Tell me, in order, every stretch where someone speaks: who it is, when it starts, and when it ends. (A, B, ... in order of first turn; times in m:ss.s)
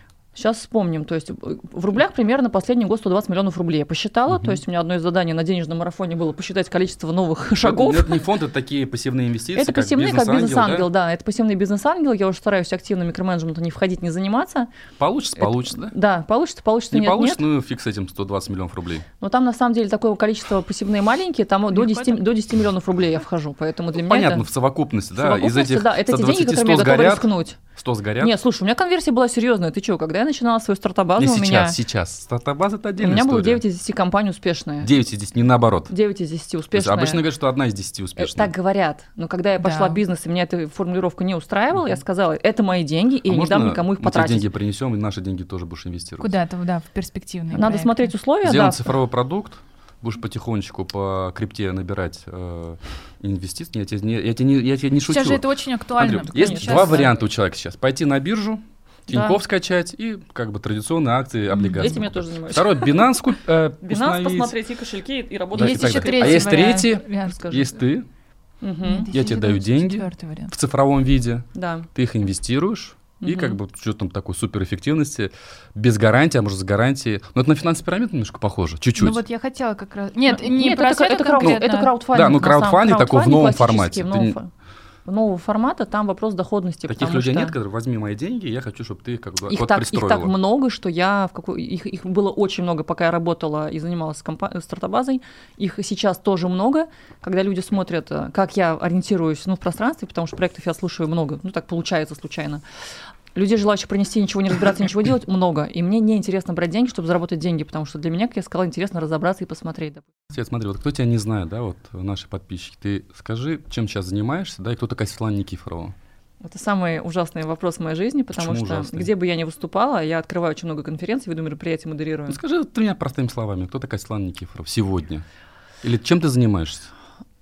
0:00.4-0:08.2 A
0:04.3-0:04.6 B
0:07.6-0:10.9 B
0:09.6-0:14.7 A
0:15.0-0:15.9 B
0:15.4-0:17.4 A
0:16.9-0:19.1 B
0:19.2-0:24.5 A
0:21.7-0:22.2 C
0:24.0-0:28.3 B
0:25.2-0:27.6 A
0:28.2-0:31.8 A
0:31.2-0:33.6 B
0:33.0-0:34.9 A
0:34.8-0:35.9 B
0:35.9-0:37.2 A
0:36.7-0:38.5 B
0:38.2-0:44.5 A
0:39.6-0:40.0 C
0:43.3-0:46.3 B
0:46.2-0:48.2 C
0:47.5-0:48.9 A
0:48.4-0:55.4 B
0:55.1-0:57.1 C
0:56.0-1:04.6 B
0:56.1-0:57.2 A
0:59.1-0:59.4 A
1:01.5-1:02.0 C
1:01.8-1:03.1 A
1:03.8-1:06.8 A
1:05.5-1:08.1 B
1:05.6-1:07.7 C
1:07.3-1:07.7 A
1:08.6-1:09.1 A
1:08.8-1:10.5 C
1:09.1-1:19.2 B
1:11.5-1:11.9 A
1:13.2-1:13.6 A
1:19.0-1:21.9 C
1:20.3-1:24.5 A
1:21.4-1:24.4 B
1:25.0-1:27.6 A
1:26.9-1:30.3 B
1:29.5-1:42.6 A
1:43.4-1:50.1 A
1:50.3-1:56.0 B
1:56.4-2:02.4 A
1:58.3-1:59.1 B
2:02.3-2:05.2 B
2:05.8-2:06.9 B